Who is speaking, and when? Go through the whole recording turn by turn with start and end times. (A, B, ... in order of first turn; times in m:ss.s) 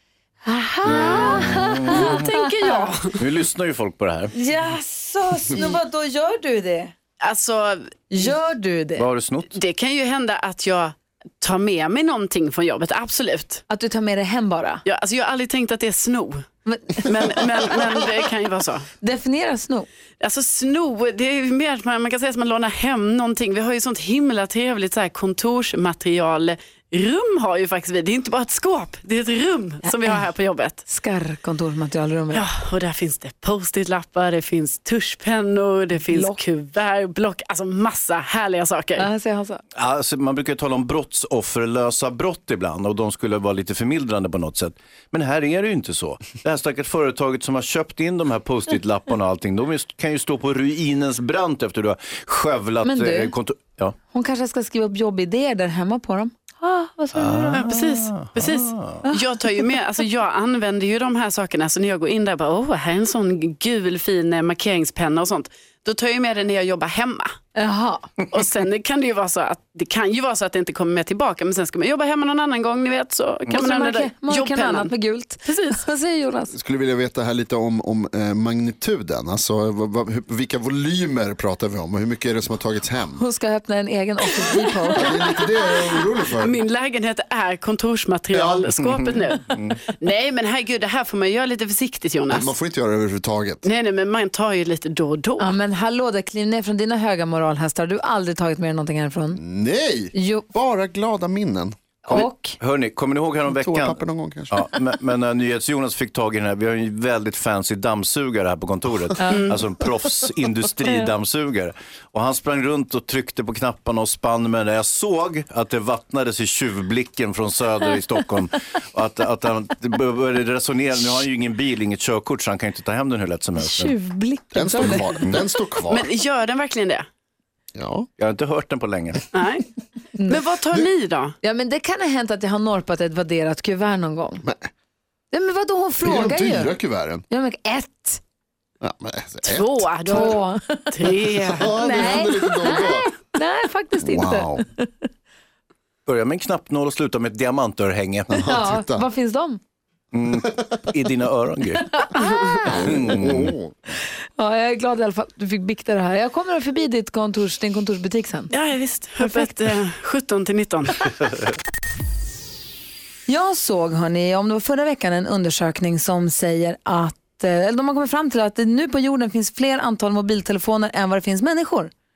0:00.4-0:02.9 A
0:00.8-0:03.2 B
0:00.9-0:02.1 C
0:03.2-0:04.3 C
0:04.3-0:06.9 A
0:07.2-0:08.3 B
0:08.1-0:09.0 A
0:09.0-0:09.5 C
0:09.5-0:13.6 B
0:13.7-0:14.8 A
0:14.8-0:16.4 B
0:16.6-0:17.1 A
0:17.0-0:18.8 B
0:19.0-0:19.9 A
0:20.2-0:30.8 B
0:29.8-0:30.2 A
0:30.8-0:32.4 A
0:32.3-0:39.1 B
0:36.1-0:36.4 A
0:39.0-0:39.6 A
0:39.8-0:53.9 C
0:52.8-0:53.3 A
0:54.1-0:57.7 A
0:57.1-0:59.0 C
0:57.5-1:07.3 B
1:07.5-1:08.1 A
1:08.3-1:14.9 B
1:13.5-1:16.5 A
1:15.4-1:15.8 B
1:16.5-1:23.2 D
1:23.1-1:25.4 A
1:24.9-1:26.6 D
1:26.4-1:32.6 B
1:28.3-1:28.7 D
1:32.3-1:33.6 D
1:33.6-1:35.5 B
1:35.4-1:39.4 A
1:39.3-1:42.2 D
1:40.1-1:40.4 A
1:42.0-1:42.6 A
1:42.1-2:03.9 C
1:43.5-1:44.6 D
1:49.3-1:49.6 B
2:03.6-2:05.3 A
2:04.5-2:06.1 D
2:04.8-2:05.4 C
2:05.9-2:07.0 B
2:07.7-2:08.1 D
2:08.2-2:09.2 C
2:09.3-2:09.7 B
2:10.1-2:10.4 A
2:10.3-2:11.3 B
2:11.4-2:14.4 A
2:14.4-2:14.7 D
2:15.3-2:16.8 A
2:16.0-2:17.2 D
2:17.3-2:18.2 A
2:18.8-2:20.3 D
2:19.4-2:21.7 B
2:20.1-2:20.9 A
2:21.5-2:23.1 D
2:21.7-2:24.9 A
2:24.0-2:24.6 D
2:26.0-2:28.4 C
2:28.3-2:29.0 D
2:28.4-2:29.6 A
2:30.1-2:32.0 C
2:31.9-2:33.1 A
2:32.6-2:33.8 D
2:32.7-2:33.5 C
2:34.4-2:38.5 A
2:38.5-2:41.1 B
2:39.2-2:39.6 A
2:43.3-2:51.9 A